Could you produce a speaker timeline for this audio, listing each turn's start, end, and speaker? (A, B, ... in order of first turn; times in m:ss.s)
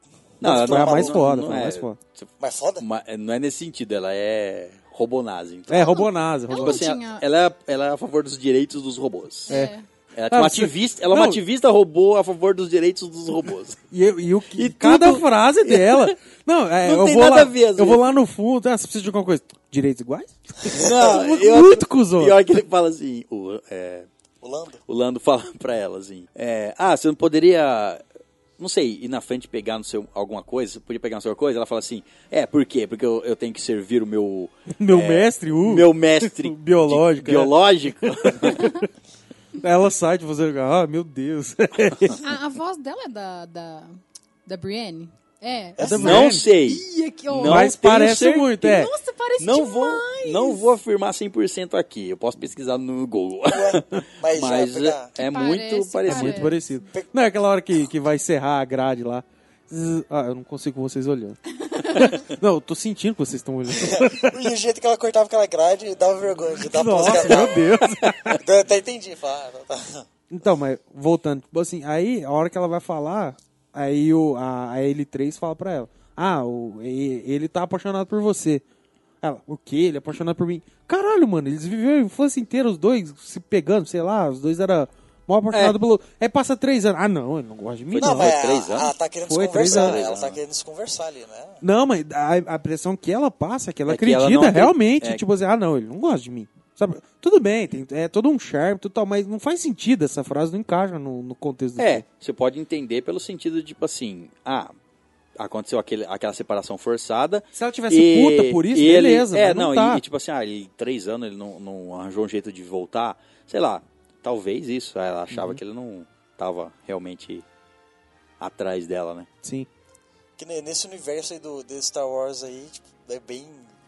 0:00.4-0:01.6 A
0:00.4-0:09.5 B
0:00.4-0:02.0 C
0:02.4-0:02.9 A
0:05.7-0:06.9 C
0:05.9-0:07.2 D
0:09.5-0:09.7 C
0:09.5-0:09.9 D
0:10.1-0:13.8 B
0:10.3-0:11.4 C
0:13.9-0:22.4 C
0:14.6-0:16.2 B
0:16.8-0:18.1 B
0:20.7-0:21.2 A
0:20.8-0:24.1 B
0:24.4-0:24.8 A
0:24.9-0:28.0 B
0:28.6-0:38.7 B
0:34.8-0:37.6 C
0:38.2-0:38.6 C
0:38.5-0:38.8 D
0:39.6-0:42.2 C
0:42.2-0:47.7 D
0:45.8-0:46.3 A
0:45.8-0:46.5 C
0:46.0-0:48.8 B
0:47.4-0:48.9 C
0:48.6-0:50.8 D
0:49.4-0:56.5 B
0:53.5-0:55.1 A
0:55.2-0:56.6 D
0:56.1-1:01.4 C
1:01.6-1:02.2 D
1:01.9-1:04.4 C
1:03.7-1:10.1 A
1:06.7-1:08.4 C
1:10.3-1:18.6 C
1:19.2-1:28.4 C
1:25.5-1:25.8 B
1:27.9-1:28.9 B
1:28.0-1:31.6 A
1:29.3-1:30.1 C
1:29.6-1:30.4 B
1:31.6-1:42.0 C
1:33.9-1:35.2 B
1:41.8-1:44.7 B
1:45.4-1:57.4 B
1:47.6-1:50.0 C
1:55.3-1:55.6 C
1:58.4-1:59.3 B
2:00.4-2:03.7 A